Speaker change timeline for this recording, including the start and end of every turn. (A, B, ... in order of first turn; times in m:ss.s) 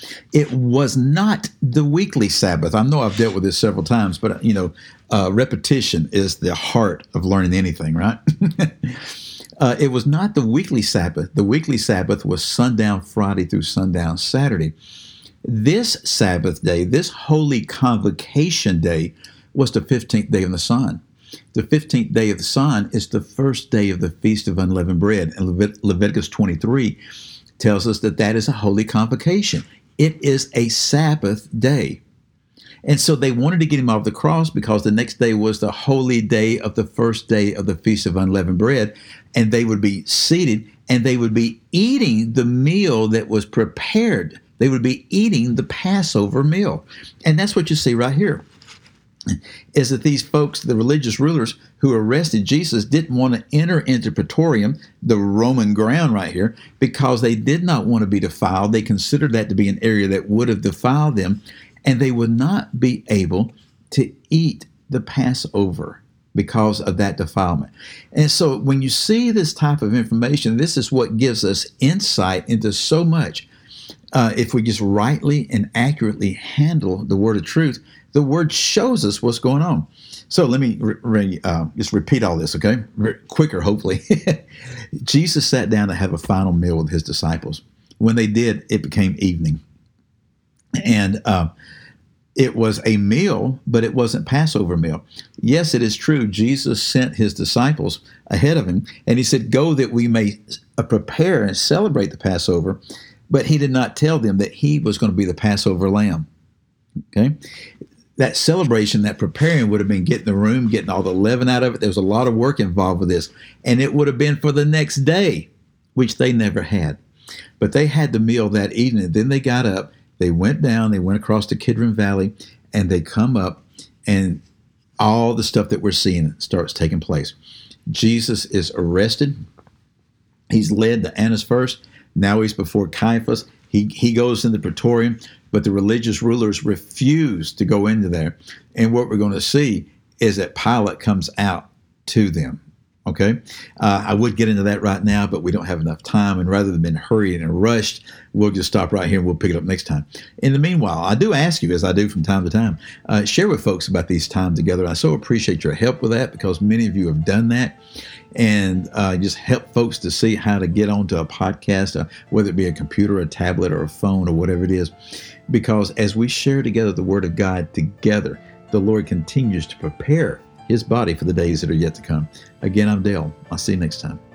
0:00.3-0:14.7 A
0:15.4-0:21.0 A
0:21.5-0:27.0 A
0:27.6-0:32.0 A
0:32.8-0:48.4 A
0:49.3-1:13.5 A
1:14.1-1:29.6 A
1:30.8-1:31.5 A
1:32.4-1:46.3 A
1:48.2-1:57.0 A
1:57.6-2:04.4 A
2:05.0-2:07.3 A
2:07.9-2:09.4 A
2:10.5-2:37.8 A
2:38.3-2:44.9 A
2:45.5-2:54.2 A